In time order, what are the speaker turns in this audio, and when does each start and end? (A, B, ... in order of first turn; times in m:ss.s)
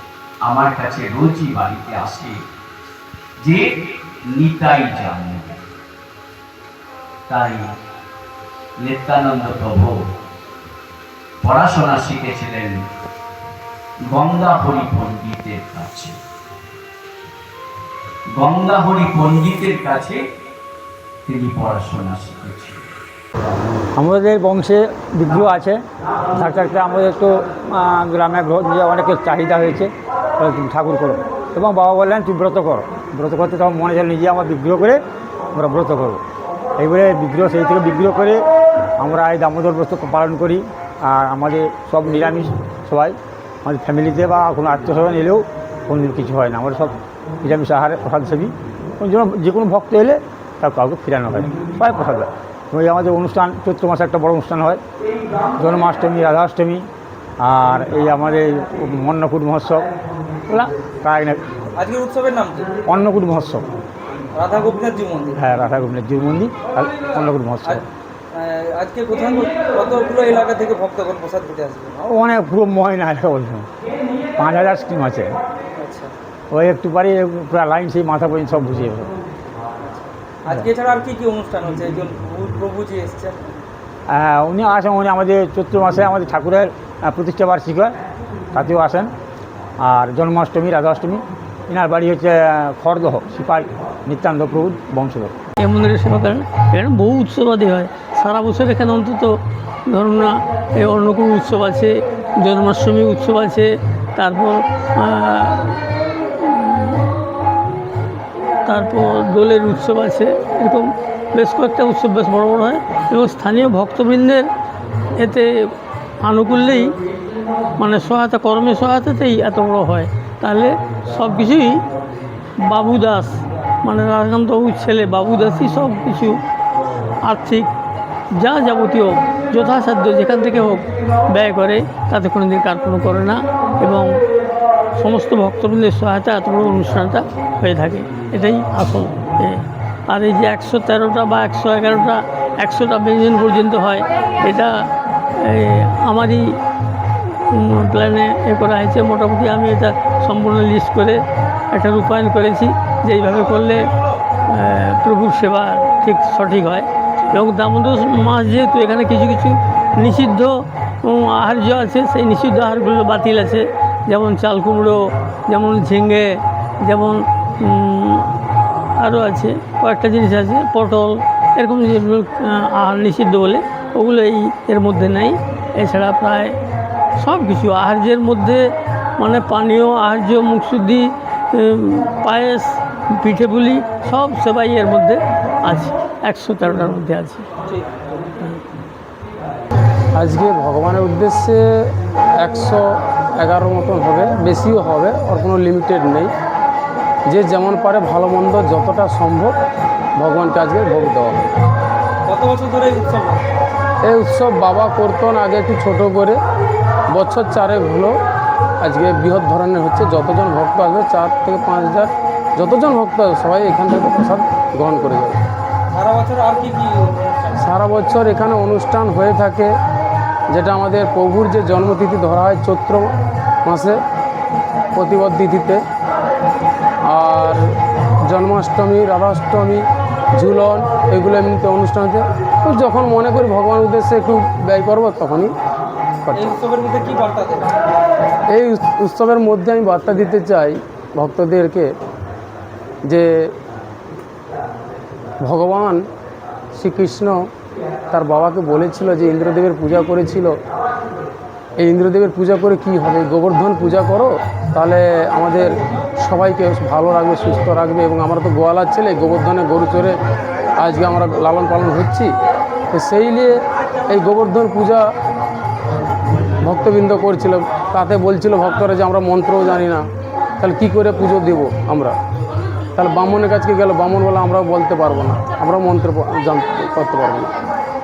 0:00.5-0:02.4 A
0:04.3-0:05.6 A
0:07.3-0:07.7 A
0:08.8-0:10.0 A
0:11.4-0:12.8 A
0:14.1-0:16.2 A
0:18.4-0:20.2 A
0:21.2-0:22.8 A
0:24.0-0:25.8 B
0:26.3-0:35.0 B
0:35.5-0:36.2 B
0:36.8-0:38.4 B
0:39.0-0:54.8 B
0:55.6-0:56.9 B
0:57.4-0:59.9 B
1:00.5-1:01.5 B
1:01.8-1:02.7 C
1:02.9-1:03.7 B
1:04.4-1:05.4 C
1:05.4-1:07.8 B
1:08.3-1:12.0 C
1:12.0-1:13.7 B
1:14.4-1:15.4 B
1:15.8-1:16.1 C
1:16.5-1:19.1 B
1:19.9-1:23.6 C
1:24.1-1:28.0 B
1:28.5-1:29.1 B
1:29.8-1:35.4 B
1:35.6-1:39.4 D
1:39.9-1:45.7 D
1:46.5-1:47.0 D
1:48.7-1:54.5 D
1:55.2-1:55.5 D
1:56.2-1:57.0 D
1:57.8-2:01.8 D
2:02.7-2:06.4 D
2:07.2-2:07.7 D
2:08.4-2:14.1 D
2:15.0-2:24.7 D
2:25.5-2:26.4 D
2:27.5-2:31.2 D
2:31.7-2:33.9 D
2:34.6-2:48.3 D
2:49.0-2:56.6 D
2:57.2-2:58.7 D
2:59.2-3:07.5 D
3:10.2-3:11.6 E
3:12.4-3:12.8 E
3:13.4-3:16.3 E
3:17.3-3:19.5 E
3:20.2-3:21.4 E
3:22.3-3:23.4 C
3:24.0-3:26.4 E
3:27.1-3:28.1 E
3:28.8-3:35.4 E
3:35.9-3:37.5 C
3:37.6-3:39.7 E
3:40.5-3:43.1 E
3:43.7-3:44.0 E
3:45.0-3:45.8 E
3:47.0-3:47.6 E
3:48.3-3:49.8 E
3:50.4-3:55.5 E
3:56.3-3:56.6 E
3:56.3-3:57.7 C
3:58.5-4:01.8 E
4:05.4-4:06.0 E
4:06.8-4:07.4 E
4:08.1-4:10.5 E
4:11.8-4:20.2 E
4:20.8-4:22.3 E
4:22.9-4:23.6 E
4:24.1-4:25.0 E
4:26.6-4:30.0 E
4:30.6-4:32.2 E
4:33.0-4:37.5 E